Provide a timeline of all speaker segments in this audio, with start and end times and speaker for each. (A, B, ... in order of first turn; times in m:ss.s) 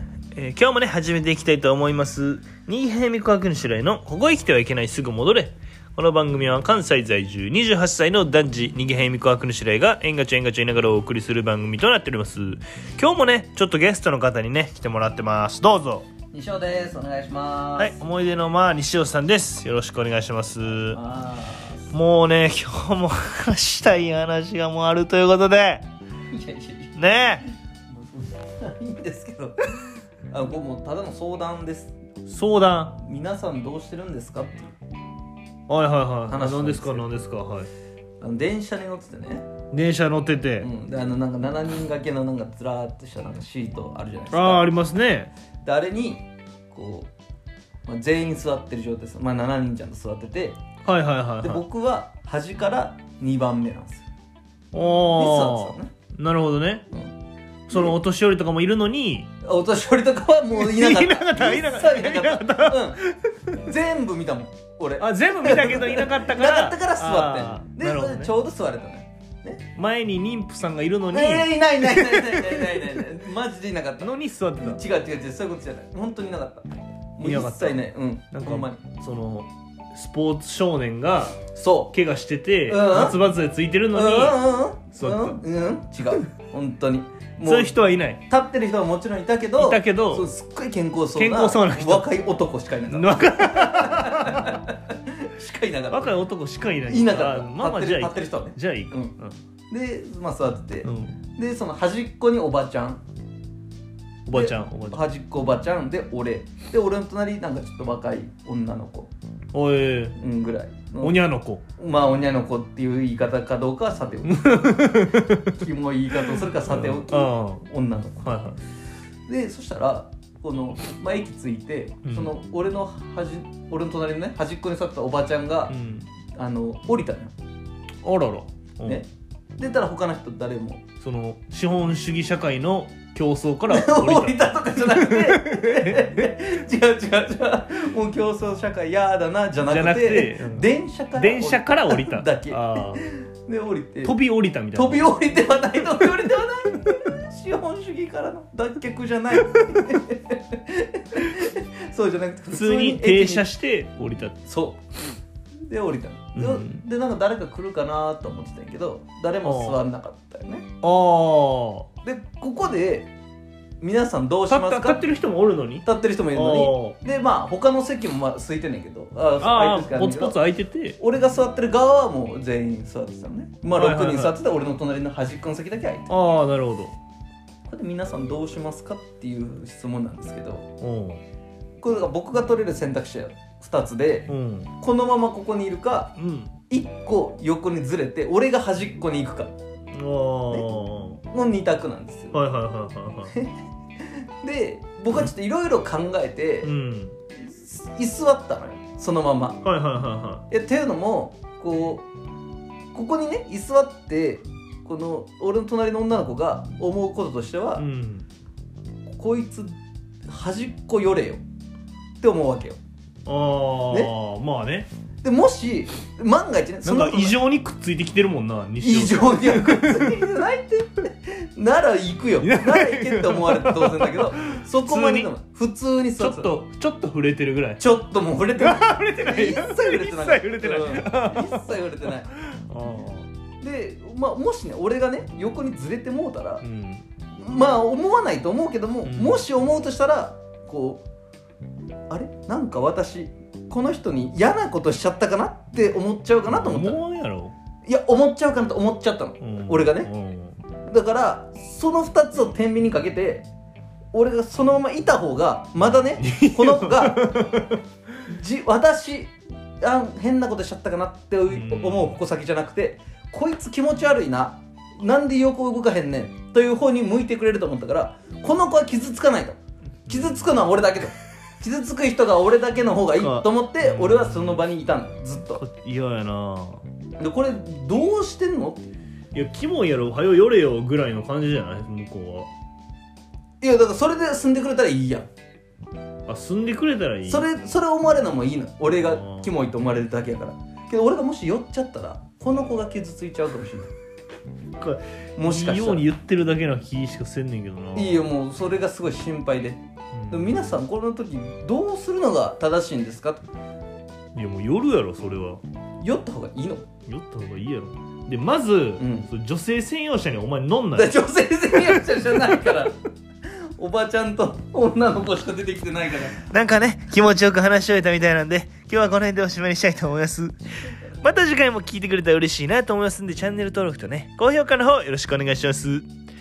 0:00.3-0:16.1 A
0:16.3-0:18.0 B
0:17.8-0:21.0 A
0:20.9-0:22.0 B
0:21.9-0:25.8 A
0:26.3-0:27.0 B
0:27.0-0:27.4 A
0:27.9-0:29.6 B
0:30.3-0:31.9 B
0:32.3-0:33.0 A
0:33.0-0:34.7 B
0:35.7-0:37.7 A
0:36.3-0:37.1 B
0:38.2-0:39.5 B
0:39.7-0:40.7 A
0:40.6-0:44.6 B
0:44.3-0:45.3 A
0:45.6-0:47.1 B
0:47.9-0:50.6 B
0:50.8-0:51.6 A
0:51.4-0:54.0 B
0:54.7-0:56.8 A
0:55.1-0:55.9 B
0:57.7-0:59.3 A
0:57.7-0:58.0 B
0:59.4-1:03.0 B
1:00.5-1:03.4 A
1:03.6-1:09.6 B
1:05.0-1:08.3 A
1:09.8-1:12.9 A
1:11.1-1:18.8 B
1:14.0-1:14.8 A
1:17.2-1:21.4 A
1:21.5-1:21.9 B
1:21.9-1:25.4 A
1:22.7-1:23.2 B
1:23.9-1:27.7 B
1:27.4-1:28.2 A
1:28.3-1:36.1 B
1:29.6-1:30.3 A
1:31.2-1:32.1 A
1:32.9-1:34.6 A
1:35.9-1:39.4 A
1:36.9-1:39.2 B
1:39.7-1:43.0 B
1:40.8-1:41.2 A
1:44.3-1:45.0 A
1:44.3-1:49.1 B
1:49.5-1:50.2 A
1:50.2-1:51.2 B
1:51.0-1:51.6 A
1:51.8-1:54.9 B
1:54.3-1:55.6 A
1:55.6-1:58.4 B
1:56.3-1:57.7 A
1:58.2-1:58.6 A
1:59.3-2:05.8 B
2:02.0-2:02.3 A
2:05.7-2:06.1 A
2:06.4-2:07.3 B
2:08.0-2:09.0 A
2:09.6-2:10.8 B
2:11.0-2:16.2 A
2:13.7-2:24.2 B
2:19.7-2:23.0 A
2:24.0-2:25.1 A
2:24.7-2:33.5 B
2:32.5-2:34.4 A
2:34.4-2:34.8 B
2:35.7-2:40.7 B
2:36.4-2:36.8 A
2:39.4-2:39.8 A
2:40.8-2:41.9 A
2:42.0-2:43.1 B
2:43.8-2:45.0 B
2:44.5-2:47.0 A
2:45.8-2:50.4 B
2:49.4-2:51.0 A
2:51.0-2:56.1 B
2:53.7-2:54.4 A
2:56.1-2:56.9 A
2:57.7-3:00.7 B
3:00.8-3:01.2 A
3:01.8-3:04.3 B
3:04.3-3:04.7 A
3:04.8-3:06.2 B
3:06.2-3:06.5 A
3:06.7-3:09.5 B
3:09.9-3:11.2 A
3:11.3-3:12.4 B
3:12.3-3:13.4 A
3:13.3-3:13.6 B
3:14.1-3:16.7 B
3:16.6-3:17.2 A
3:17.4-3:19.6 B
3:19.6-3:20.4 A
3:20.5-3:22.0 B
3:22.9-3:27.8 B
3:27.8-3:28.3 A
3:29.1-3:29.8 B
3:30.3-3:31.4 B
3:32.2-3:32.8 B
3:33.3-3:34.9 A
3:35.2-3:37.4 B
3:36.8-3:40.2 A
3:38.8-3:46.5 B
3:42.4-3:45.3 A
3:46.2-3:47.8 A
3:47.8-3:52.3 B
3:48.6-3:53.3 A
3:53.6-3:56.6 B
3:56.6-3:57.0 A
3:57.4-4:01.0 B
3:59.0-3:59.4 A
4:02.1-4:07.0 B
4:06.4-4:07.6 A
4:07.9-4:10.1 B
4:09.4-4:10.6 A
4:10.9-4:13.5 B
4:14.1-4:17.4 B
4:15.9-4:17.8 A
4:18.2-4:35.6 B
4:21.5-4:22.2 A
4:30.1-4:30.4 A
4:33.2-4:34.6 A
4:35.5-4:36.8 A
4:37.2-4:39.0 B
4:39.3-4:42.5 A
4:43.6-4:45.3 B
4:46.3-4:47.5 A
4:47.3-4:53.9 B
4:49.0-4:49.5 A
4:54.8-4:58.3 A
4:55.4-4:56.1 B
4:58.0-5:03.5 B
5:00.2-5:00.6 A
5:04.3-5:05.6 A
5:06.0-5:06.9 B
5:07.1-5:11.1 A
5:09.0-5:09.3 B
5:11.0-5:12.9 B
5:13.8-5:16.4 B
5:16.4-5:20.6 A
5:21.2-5:26.1 A